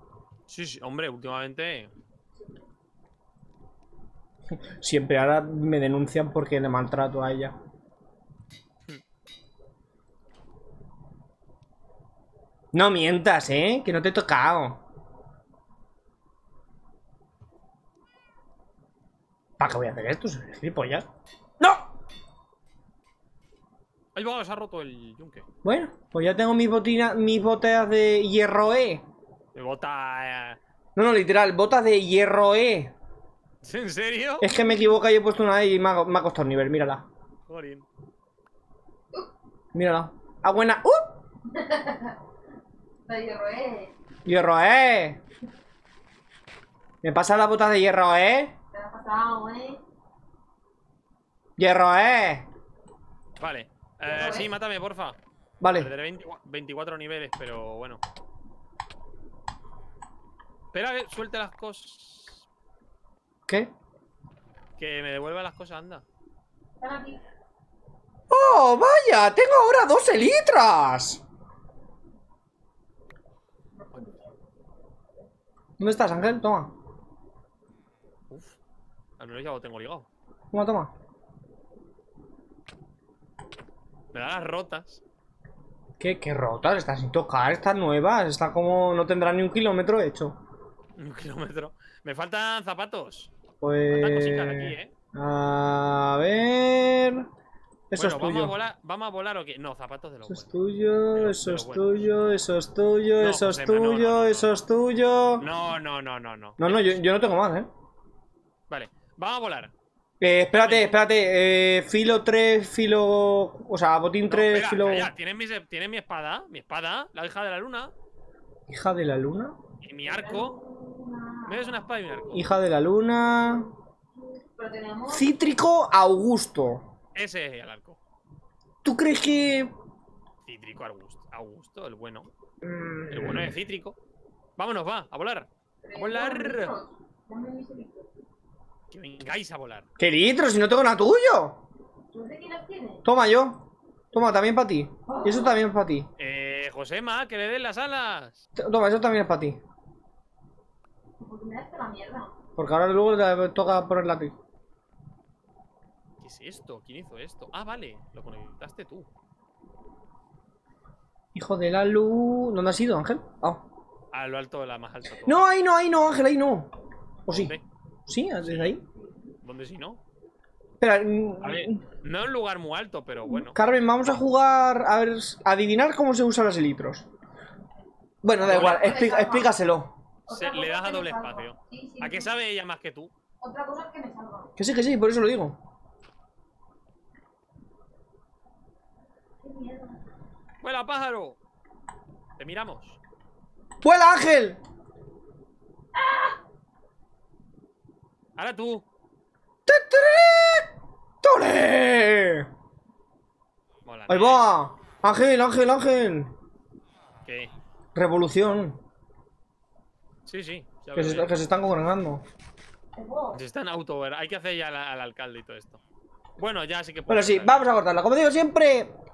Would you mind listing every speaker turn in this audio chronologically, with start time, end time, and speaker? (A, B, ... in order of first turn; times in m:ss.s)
0:00.5-0:01.9 A
0:04.8-0:07.6 B
0:12.7-0:14.8 B
0:19.6-0:21.1 B
0:21.6-0:21.9 B
0:24.2-0:25.5 A
0:25.6-0:29.0 B
0:29.6-0:30.6 A
0:31.0-0:32.9 B
0:33.6-0:34.5 A
0:34.4-0:37.1 B
0:37.5-0:37.9 A
0:39.7-0:41.2 B
0:41.4-0:42.2 C
0:43.1-0:43.9 C
0:44.2-0:45.2 B
0:47.0-0:48.6 B
0:48.7-0:49.8 C
0:51.6-0:52.5 B
0:53.4-0:55.2 A
0:54.1-0:54.5 C
0:55.6-0:55.9 B
0:55.7-0:58.0 A
1:00.7-1:02.4 A
1:04.8-1:06.0 A
1:06.8-1:07.2 C
1:08.3-1:11.2 B
1:13.8-1:14.4 C
1:15.8-1:16.7 B
1:18.3-1:18.6 A
1:19.2-1:20.1 A
1:20.5-1:20.9 B
1:24.1-1:25.0 A
1:26.0-1:30.4 B
1:31.0-1:33.3 A
1:33.6-1:37.3 B
1:33.9-1:34.9 A
1:37.9-1:38.6 B
1:38.0-1:40.5 A
1:40.3-1:45.5 B
1:41.1-1:42.1 A
1:43.2-1:44.6 A
1:45.4-1:47.0 A
1:46.6-1:47.7 B
1:48.7-1:49.7 A
1:50.2-1:55.1 B
1:50.5-1:51.0 A
1:54.3-1:57.9 A
1:58.7-1:59.6 B
1:59.8-2:00.6 A
2:00.0-2:02.1 C
2:01.5-2:02.4 A
2:02.3-2:03.7 B
2:04.1-2:05.3 C
2:05.1-2:06.9 B
2:07.2-2:08.0 A
2:08.8-2:09.7 B
2:10.4-2:12.3 A
2:12.6-2:13.5 B
2:13.1-2:14.0 A
2:14.6-2:16.8 A
2:15.8-2:18.1 C
2:18.9-2:19.9 A
2:20.0-2:21.6 B
2:22.1-2:23.0 C
2:23.0-2:26.1 B
2:25.1-2:25.6 C
2:26.2-2:28.4 A
2:28.6-2:29.6 B
2:31.2-2:32.4 C
2:32.6-2:34.3 B
2:36.2-2:39.1 A
2:41.4-2:43.6 B
2:44.1-2:45.5 A
2:45.2-2:46.7 B
2:47.3-2:47.6 B
2:47.3-2:47.6 A
2:48.1-2:48.8 B
2:48.4-2:48.8 A
2:49.4-2:50.0 A
2:50.8-2:51.8 B
2:51.4-2:53.6 A
2:53.4-2:57.1 B
2:58.2-3:00.0 B
2:58.4-2:59.0 A
2:58.5-2:59.5 C
3:00.3-3:02.3 C
3:00.3-3:03.1 A
3:03.4-3:04.5 C
3:04.6-3:05.6 B
3:09.4-3:10.0 C
3:10.6-3:11.4 A
3:12.4-3:13.0 A
3:13.8-3:14.6 B
3:16.0-3:16.4 C
3:18.4-3:18.8 A
3:19.7-3:20.7 B
3:21.2-3:22.5 B
3:23.8-3:24.5 A
3:24.1-3:26.3 B
3:27.2-3:27.5 A
3:28.0-3:28.8 B
3:30.3-3:31.4 A
3:31.0-3:32.2 B
3:33.0-3:33.4 C
3:33.3-3:35.8 A
3:36.4-3:37.7 A
3:37.1-3:38.9 B